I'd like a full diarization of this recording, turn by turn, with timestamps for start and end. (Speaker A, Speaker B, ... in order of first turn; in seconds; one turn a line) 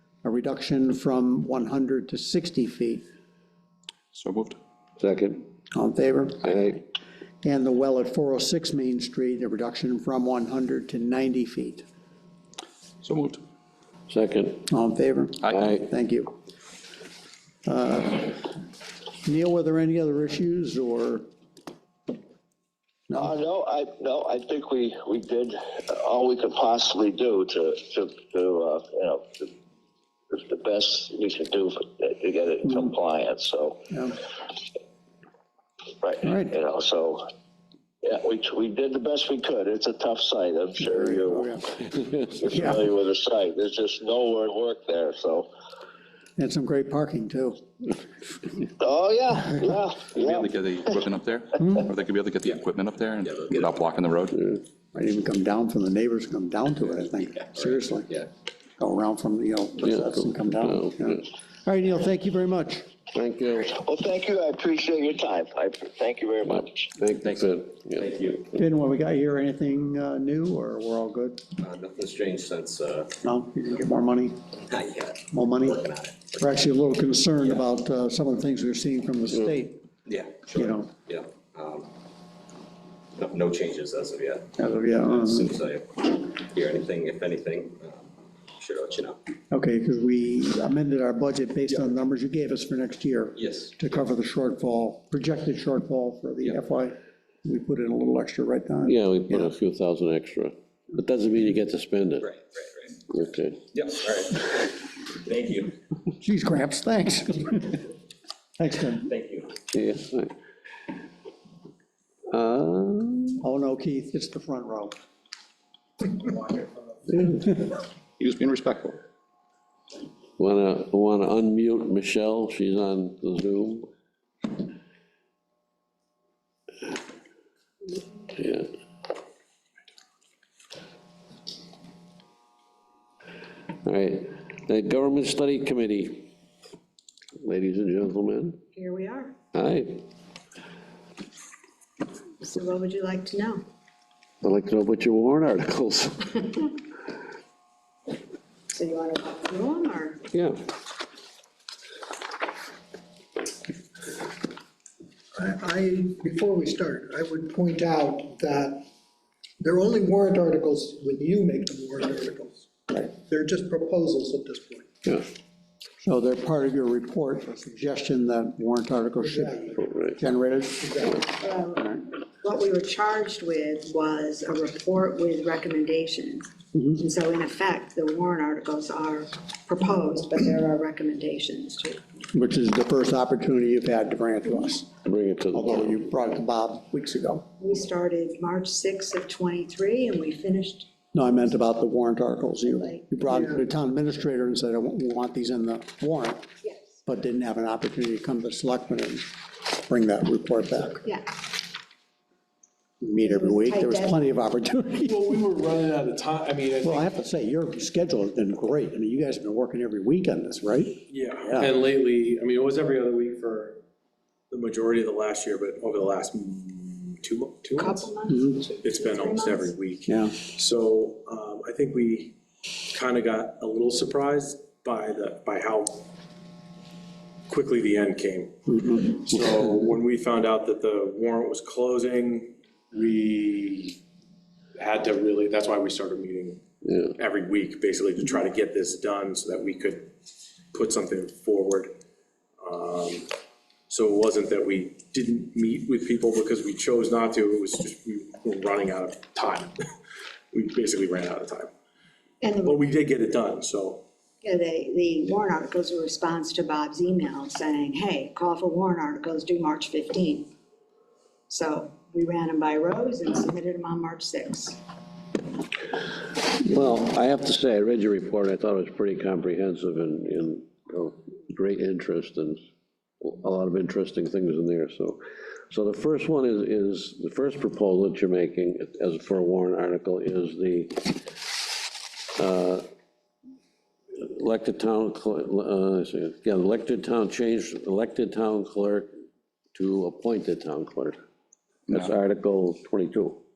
Speaker A: 0.2-3.0
Speaker B: 4.1-4.6
Speaker C: 5.0-5.4
Speaker A: 5.7-6.8
Speaker A: 7.4-11.8
Speaker B: 13.0-13.4
Speaker C: 14.1-14.6
Speaker A: 14.7-16.3
Speaker A: 17.6-18.5
Speaker A: 19.2-21.3
Speaker D: 23.1-29.5
Speaker D: 30.3-33.8
Speaker A: 33.9-34.2
Speaker D: 36.0-37.2
Speaker A: 36.2-36.5
Speaker D: 38.0-45.5
Speaker A: 40.8-41.7
Speaker A: 42.5-42.8
Speaker A: 46.4-47.6
Speaker D: 48.8-50.5
Speaker B: 50.2-54.4
Speaker A: 51.6-51.9
Speaker E: 53.2-53.8
Speaker A: 54.9-58.1
Speaker E: 57.5-58.3
Speaker A: 58.8-62.9
Speaker C: 63.1-63.6
Speaker D: 63.6-66.9
Speaker C: 66.5-68.0
Speaker E: 67.2-68.5
Speaker A: 68.6-71.4
Speaker E: 71.6-73.1
Speaker A: 73.2-74.4
Speaker E: 74.7-76.5
Speaker A: 75.3-75.8
Speaker A: 76.4-79.8
Speaker E: 80.1-81.9
Speaker A: 80.5-80.9
Speaker E: 83.2-89.2
Speaker A: 84.6-85.5
Speaker A: 89.5-99.5
Speaker E: 93.4-93.7
Speaker C: 98.8-102.2
Speaker E: 102.2-103.0
Speaker C: 103.1-103.6
Speaker E: 103.8-105.7
Speaker A: 106.2-107.8
Speaker A: 108.6-109.1
Speaker E: 109.0-109.5
Speaker C: 109.7-110.3
Speaker C: 112.3-113.4
Speaker A: 113.4-114.9
Speaker B: 118.2-119.0
Speaker C: 120.4-123.9
Speaker C: 128.3-128.7
Speaker C: 133.8-136.3
Speaker C: 137.4-138.6
Speaker F: 138.7-139.3
Speaker C: 139.5-140.0
Speaker F: 142.4-143.6
Speaker C: 144.4-146.4
Speaker F: 148.7-150.2
Speaker C: 150.3-150.6
Speaker G: 155.3-158.8
Speaker G: 159.6-164.8
Speaker A: 166.0-169.6
Speaker G: 169.2-169.7
Speaker C: 169.8-170.1
Speaker A: 170.1-170.9
Speaker F: 171.2-182.0
Speaker A: 171.8-172.0
Speaker A: 182.3-184.9
Speaker C: 185.1-185.6
Speaker A: 185.5-187.4
Speaker F: 187.6-190.9
Speaker A: 191.1-196.5
Speaker F: 192.6-193.3
Speaker F: 196.6-196.9
Speaker A: 197.1-201.0
Speaker A: 203.0-205.2
Speaker F: 203.2-204.2
Speaker H: 205.0-207.1
Speaker A: 206.8-211.7
Speaker H: 211.1-213.8
Speaker H: 214.5-218.1
Speaker F: 217.8-219.8
Speaker H: 218.8-222.3
Speaker A: 220.1-220.3
Speaker H: 222.9-226.0
Speaker H: 227.5-234.0
Speaker H: 234.8-236.6
Speaker H: 237.2-240.1
Speaker H: 240.7-241.9
Speaker H: 242.6-243.3
Speaker H: 243.9-249.7
Speaker H: 250.5-251.7
Speaker F: 252.4-252.8
Speaker H: 252.6-254.0
Speaker F: 254.4-260.5
Speaker F: 261.5-264.8
Speaker C: 266.5-272.6
Speaker C: 273.2-281.3
Speaker C: 282.4-282.9
Speaker C: 284.1-289.1
Speaker C: 289.7-291.2
Speaker B: 291.9-292.2
Speaker C: 291.9-293.4